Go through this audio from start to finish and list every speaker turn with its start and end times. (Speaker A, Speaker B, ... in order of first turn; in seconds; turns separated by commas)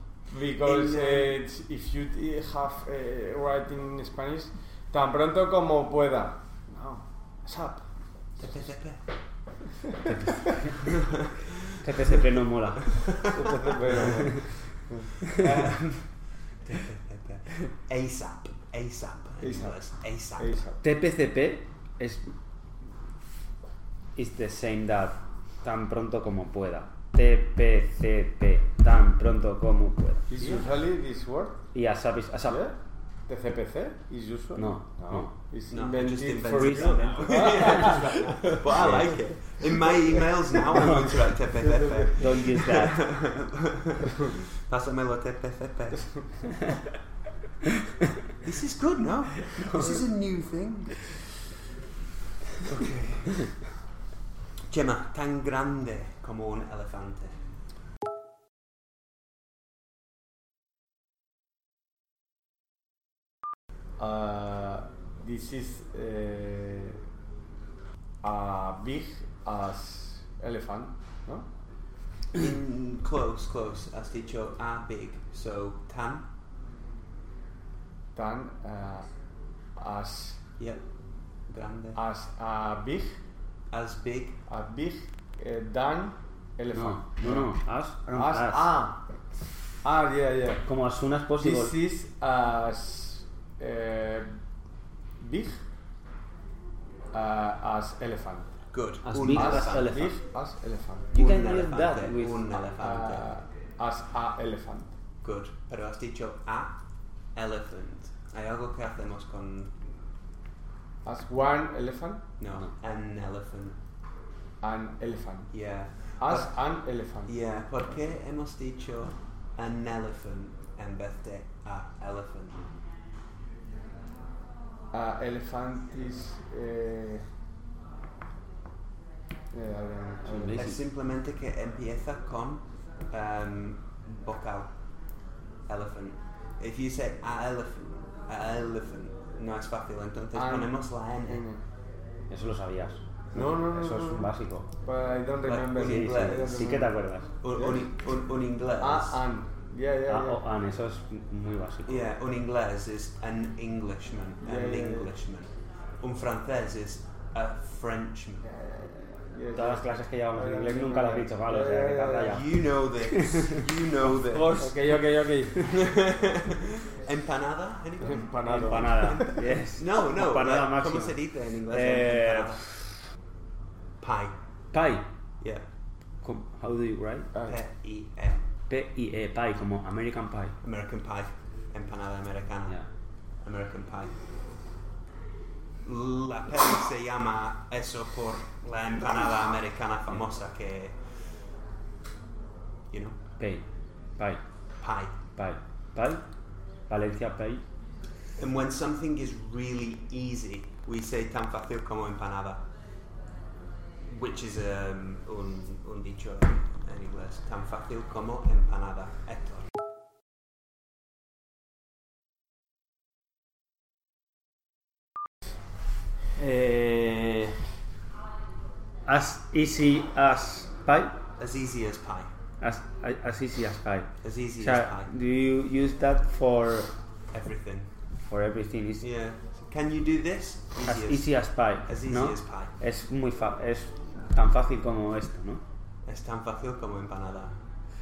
Speaker A: 0.3-7.8, Speaker B: 0.6-1.4, Speaker B: 8.4-9.0, Speaker A: 9.8-10.6, Speaker C: 10.0-11.0, Speaker B: 10.8-12.3, Speaker C: 11.8-13.3, Speaker B: 12.8-14.4, Speaker A: 13.3-15.2, Speaker C: 13.9-14.5, Speaker B: 15.2-20.6, Speaker A: 19.4-19.8, Speaker A: 20.4-20.8, Speaker C: 20.8-22.3, Speaker C: 24.2-30.6, Speaker A: 30.3-31.6, Speaker C: 31.7-32.6, Speaker A: 32.5-32.8, Speaker A: 33.3-38.6, Speaker C: 34.6-35.3, Speaker B: 35.7-46.1, Speaker C: 36.5-38.1, Speaker C: 38.7-39.2, Speaker A: 39.6-42.2, Speaker C: 40.7-41.4, Speaker C: 42.2-43.1, Speaker B: 48.4-51.3, Speaker C: 49.4-50.1, Speaker B: 52.6-53.5, Speaker B: 54.7-57.4, Speaker A: 64.0-67.0, Speaker A: 68.2-71.5, Speaker B: 72.3-76.3, Speaker A: 78.2-79.1, Speaker A: 79.8-80.4, Speaker B: 80.6-80.8, Speaker B: 81.5-82.0, Speaker A: 82.0-83.2, Speaker B: 83.7-84.4, Speaker A: 84.5-87.6, Speaker C: 86.7-88.7, Speaker A: 88.2-89.1, Speaker A: 89.8-90.6, Speaker C: 90.7-91.8, Speaker A: 91.4-94.3, Speaker A: 95.2-95.6, Speaker A: 97.1-98.6, Speaker B: 98.7-100.0, Speaker C: 99.0-100.2, Speaker A: 99.2-101.1, Speaker C: 101.1-102.5, Speaker B: 101.1-103.2, Speaker A: 102.8-104.9, Speaker B: 105.2-106.8, Speaker B: 107.3-109.9, Speaker A: 111.0-112.2, Speaker B: 112.4-113.8, Speaker A: 114.6-115.5, Speaker B: 115.5-116.5, Speaker A: 116.2-117.3, Speaker B: 117.3-122.7, Speaker A: 124.9-127.3, Speaker A: 129.5-130.6, Speaker C: 130.3-130.8, Speaker B: 130.5-134.7, Speaker B: 135.7-141.4, Speaker A: 140.3-140.7, Speaker A: 141.3-141.6, Speaker C: 142.3-144.7, Speaker A: 143.3-147.0, Speaker B: 145.4-146.7, Speaker C: 145.8-147.3, Speaker B: 147.4-149.2, Speaker A: 147.5-147.8, Speaker A: 148.8-150.4, Speaker C: 150.1-152.1, Speaker B: 151.9-158.4, Speaker A: 154.4-155.1, Speaker A: 158.4-162.4, Speaker C: 159.6-165.0, Speaker B: 162.2-164.7, Speaker A: 164.6-165.7, Speaker B: 165.6-172.7, Speaker A: 168.0-169.3, Speaker C: 168.4-171.2, Speaker C: 171.7-172.7, Speaker B: 174.0-174.4, Speaker C: 174.7-175.1, Speaker B: 175.4-175.7, Speaker C: 176.2-177.3, Speaker A: 177.3-177.6, Speaker B: 177.5-178.4, Speaker C: 178.7-180.6, Speaker B: 180.6-182.8, Speaker B: 183.4-184.2, Speaker B: 185.8-191.0, Speaker B: 192.9-193.2, Speaker C: 193.4-193.7, Speaker B: 194.8-195.2, Speaker C: 195.4-196.2, Speaker C: 196.9-197.6, Speaker B: 198.4-202.6, Speaker B: 204.1-209.7, Speaker C: 216.4-217.6, Speaker C: 219.1-221.2, Speaker B: 221.4-222.3, Speaker C: 222.6-226.9, Speaker B: 224.2-225.1, Speaker B: 227.3-227.9, Speaker C: 228.3-229.1, Speaker B: 229.0-231.3, Speaker C: 230.8-235.6, Speaker B: 231.9-232.7, Speaker B: 236.1-237.5